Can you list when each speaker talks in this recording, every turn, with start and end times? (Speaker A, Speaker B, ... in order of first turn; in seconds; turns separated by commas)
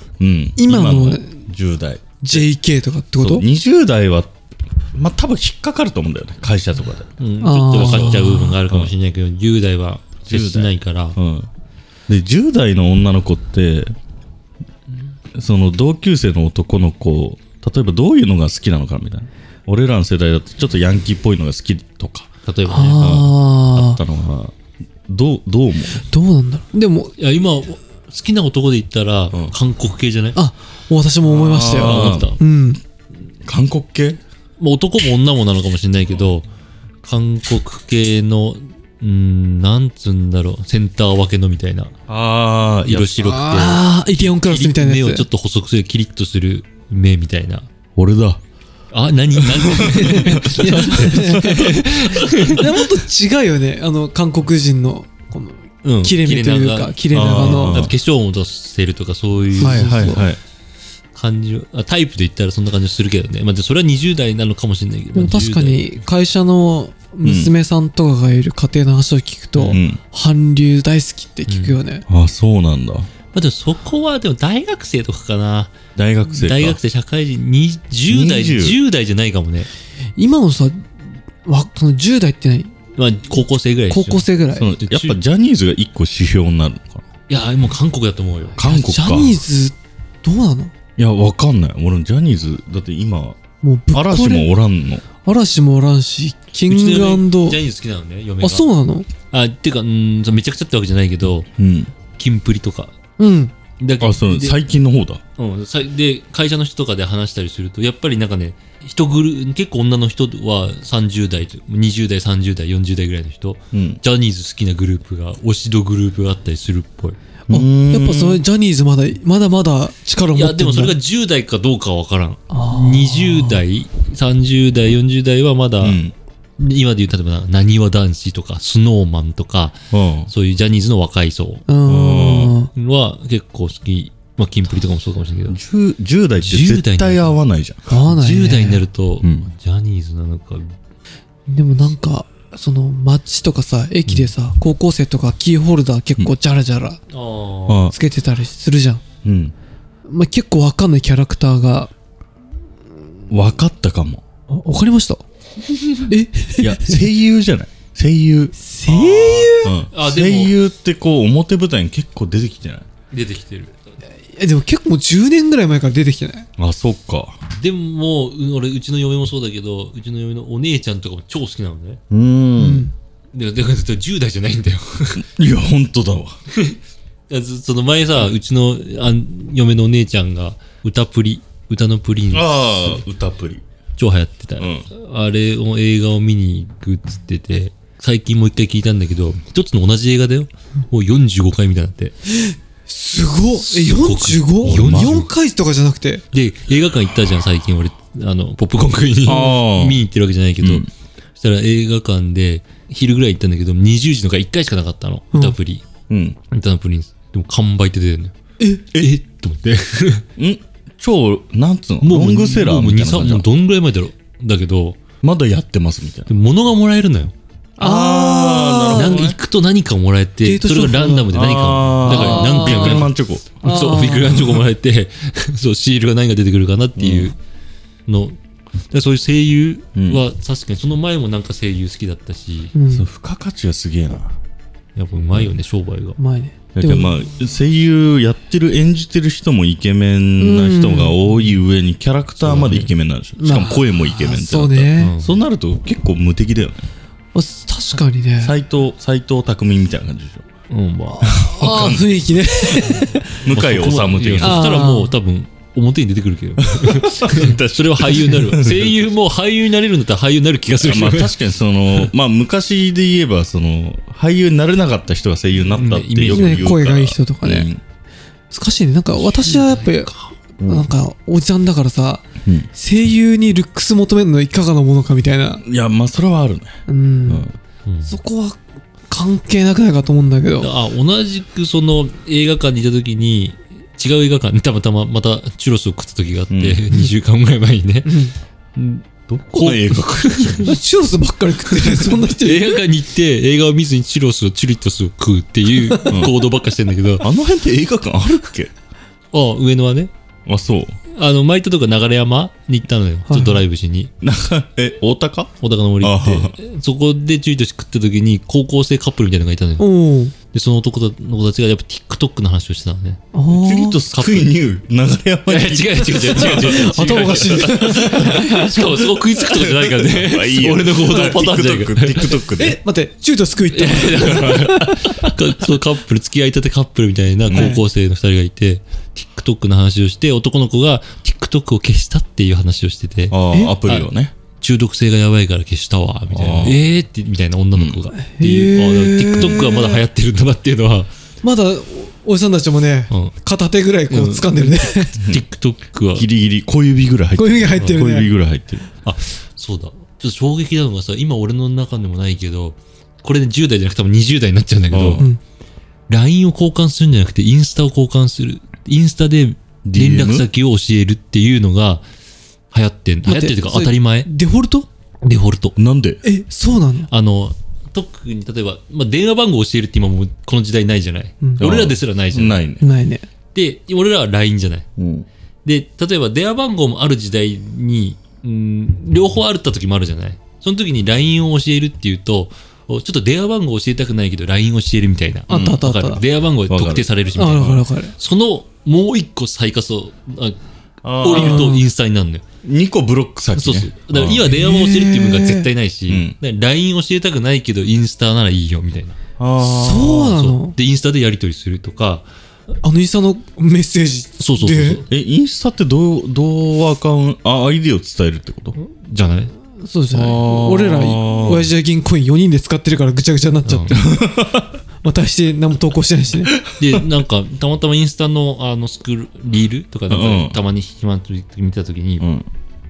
Speaker A: 0.2-2.5, Speaker B: 0.6-1.4, Speaker B: 2.2-3.4, Speaker A: 3.2-4.3, Speaker A: 4.9-7.1, Speaker C: 7.2-11.2, Speaker B: 7.4-8.6, Speaker A: 7.8-8.9, Speaker A: 10.2-11.5, Speaker A: 12.1-13.9, Speaker A: 15.3-22.3, Speaker C: 22.4-23.0, Speaker B: 22.7-24.0, Speaker A: 23.0-24.5, Speaker A: 25.1-26.0, Speaker B: 26.1-27.1, Speaker C: 27.2-30.4, Speaker B: 30.4-32.8, Speaker A: 31.2-32.3, Speaker C: 31.6-32.4, Speaker A: 33.4-34.2, Speaker C: 34.6-36.5, Speaker C: 37.0-41.9, Speaker A: 42.1-43.4, Speaker C: 42.8-43.8, Speaker B: 43.2-45.2, Speaker C: 44.4-47.7, Speaker A: 48.0-48.4, Speaker C: 48.9-52.9, Speaker A: 49.6-51.8, Speaker B: 49.7-57.8, Speaker C: 55.8-60.2, Speaker A: 57.1-57.9, Speaker B: 59.6-60.2, Speaker A: 59.6-60.4, Speaker C: 61.1-65.8, Speaker B: 65.1-72.0, Speaker A: 67.2-67.5, Speaker C: 69.5-69.8, Speaker A: 69.7-70.0, Speaker C: 71.5-71.8, Speaker A: 72.1-73.1, Speaker C: 73.3-75.8, Speaker A: 76.0-76.8, Speaker C: 76.3-79.7, Speaker A: 78.1-78.8, Speaker B: 80.2-80.8, Speaker B: 81.4-82.7, Speaker C: 83.0-85.2, Speaker B: 83.9-84.7, Speaker A: 84.5-87.0, Speaker C: 87.3-88.6, Speaker A: 88.6-89.4, Speaker B: 88.6-90.7, Speaker A: 91.0-93.4, Speaker B: 93.6-94.5, Speaker A: 93.9-95.0, Speaker B: 95.2-97.6, Speaker C: 96.7-98.6, Speaker B: 98.4-99.1, Speaker C: 99.3-101.5, Speaker A: 101.5-101.9, Speaker C: 102.1-102.9, Speaker B: 103.2-103.5, Speaker C: 103.8-104.6, Speaker A: 104.0-105.2, Speaker C: 105.4-117.2, Speaker A: 113.7-114.0, Speaker A: 117.5-118.4, Speaker B: 117.5-121.0, Speaker C: 120.3-126.0, Speaker B: 122.5-123.6, Speaker A: 125.8-126.1, Speaker C: 126.6-131.6, Speaker A: 129.9-130.3, Speaker B: 131.7-132.7, Speaker A: 131.8-132.5, Speaker C: 132.7-135.6, Speaker A: 135.5-137.8, Speaker C: 136.4-137.4, Speaker B: 137.9-138.8, Speaker C: 138.0-140.7, Speaker B: 141.5-147.0, Speaker C: 147.1-147.8, Speaker A: 147.7-147.9, Speaker B: 147.9-149.0, Speaker A: 149.2-149.5, Speaker B: 150.1-151.9, Speaker A: 153.3-154.2, Speaker B: 154.5-155.2, Speaker B: 156.0-157.0, Speaker A: 156.6-158.5, Speaker B: 158.6-159.8, Speaker C: 158.9-160.5, Speaker A: 159.6-162.9, Speaker C: 163.1-163.8, Speaker B: 164.3-166.5, Speaker A: 166.6-167.4, Speaker C: 167.6-172.0, Speaker A: 172.1-172.8, Speaker B: 172.6-172.9, Speaker C: 173.3-175.2, Speaker A: 175.2-176.3, Speaker C: 176.5-176.8, Speaker C: 177.3-183.0, Speaker A: 182.3-183.6, Speaker C: 184.0-192.1, Speaker A: 184.6-184.8, Speaker B: 192.3-196.2, Speaker C: 193.6-195.3, Speaker A: 194.6-195.3, Speaker C: 196.3-200.8, Speaker A: 199.2-200.0, Speaker A: 200.6-200.8, Speaker C: 201.4-205.8, Speaker A: 206.1-206.4, Speaker C: 206.5-208.3, Speaker C: 208.9-210.2, Speaker A: 210.4-213.4, Speaker C: 212.0-215.0, Speaker A: 215.2-216.3, Speaker C: 216.3-217.3, Speaker B: 217.8-219.3, Speaker A: 217.8-219.3, Speaker C: 218.9-223.1, Speaker B: 220.4-221.3, Speaker A: 221.3-223.6, Speaker B: 222.0-223.1, Speaker C: 223.6-227.3, Speaker B: 223.6-224.5, Speaker A: 227.0-227.3, Speaker C: 228.1-228.4, Speaker C: 228.9-232.7, Speaker A: 229.9-230.2, Speaker B: 232.7-233.1, Speaker A: 232.9-234.3, Speaker C: 234.9-236.2, Speaker B: 236.2-237.1, Speaker A: 236.7-246.9, Speaker B: 240.4-241.2, Speaker C: 242.4-242.9, Speaker B: 243.4-245.1, Speaker C: 245.0-245.4, Speaker B: 247.3-248.5, Speaker A: 248.4-250.4, Speaker C: 250.7-251.4, Speaker B: 251.2-253.4, Speaker A: 251.2-254.8, Speaker C: 252.9-261.3, Speaker B: 254.4-255.1, Speaker A: 256.7-258.9, Speaker A: 260.8-267.8, Speaker C: 265.7-266.7, Speaker B: 266.3-267.7, Speaker B: 268.5-270.1, Speaker C: 269.2-270.3, Speaker A: 270.6-270.9, Speaker B: 270.6-275.6, Speaker A: 275.6-276.8, Speaker B: 276.9-277.4, Speaker A: 277.3-277.5, Speaker C: 277.9-278.2, Speaker B: 278.1-280.7, Speaker C: 280.6-288.2, Speaker A: 286.5-286.8, Speaker B: 288.1-288.3, Speaker C: 288.7-290.7, Speaker A: 289.3-290.8, Speaker B: 290.6-292.8, Speaker C: 291.8-297.3, Speaker B: 295.9-296.2, Speaker A: 296.1-296.4, Speaker A: 297.2-298.7, Speaker C: 299.3-300.1, Speaker A: 300.5-300.9, Speaker C: 301.1-304.1, Speaker B: 303.3-303.6, Speaker A: 304.2-306.5, Speaker C: 305.6-309.9, Speaker B: 309.8-310.3, Speaker C: 310.5-313.2, Speaker B: 313.3-314.0, Speaker A: 313.5-318.7, Speaker C: 314.1-314.5, Speaker C: 315.5-322.4, Speaker B: 316.3-318.9, Speaker A: 319.3-322.8, Speaker B: 322.5-325.0, Speaker C: 323.7-334.1, Speaker A: 324.4-325.1, Speaker A: 327.5-327.8, Speaker B: 327.5-327.8, Speaker A: 333.3-334.3, Speaker C: 334.6-341.1, Speaker A: 336.3-336.8, Speaker A: 337.8-338.0, Speaker B: 338.2-340.0, Speaker B: 341.4-345.1, Speaker C: 344.1-346.2, Speaker A: 346.1-348.8, Speaker B: 347.4-348.3, Speaker C: 347.8-348.0, Speaker C: 349.0-355.3, Speaker A: 354.9-355.2, Speaker C: 356.1-362.0, Speaker A: 359.8-360.5, Speaker C: 362.7-364.3, Speaker B: 363.2-364.9, Speaker C: 365.2-365.8, Speaker A: 365.8-366.2, Speaker B: 366.2-367.1, Speaker C: 367.1-372.6, Speaker A: 371.6-372.9, Speaker B: 372.8-373.2, Speaker C: 373.5-374.9, Speaker A: 375.0-375.3, Speaker C: 375.6-390.6, Speaker B: 385.5-386.2, Speaker A: 385.5-385.8, Speaker A: 386.7-387.8, Speaker B: 387.3-388.1, Speaker A: 391.0-391.8, Speaker C: 391.2-392.4, Speaker B: 391.3-391.8, Speaker A: 392.6-394.5, Speaker C: 393.6-399.2, Speaker B: 394.5-395.7, Speaker A: 396.1-396.4, Speaker A: 399.4-400.4, Speaker B: 399.6-400.8, Speaker C: 400.1-402.2, Speaker B: 402.8-405.0, Speaker C: 404.4-405.0, Speaker A: 405.1-408.8, Speaker C: 408.8-409.5, Speaker B: 409.8-414.2, Speaker A: 410.1-411.7, Speaker C: 413.6-414.0, Speaker A: 413.9-414.7, Speaker B: 415.0-416.6, Speaker A: 416.7-417.0, Speaker C: 416.8-422.3, Speaker A: 420.1-420.6, Speaker A: 422.2-422.5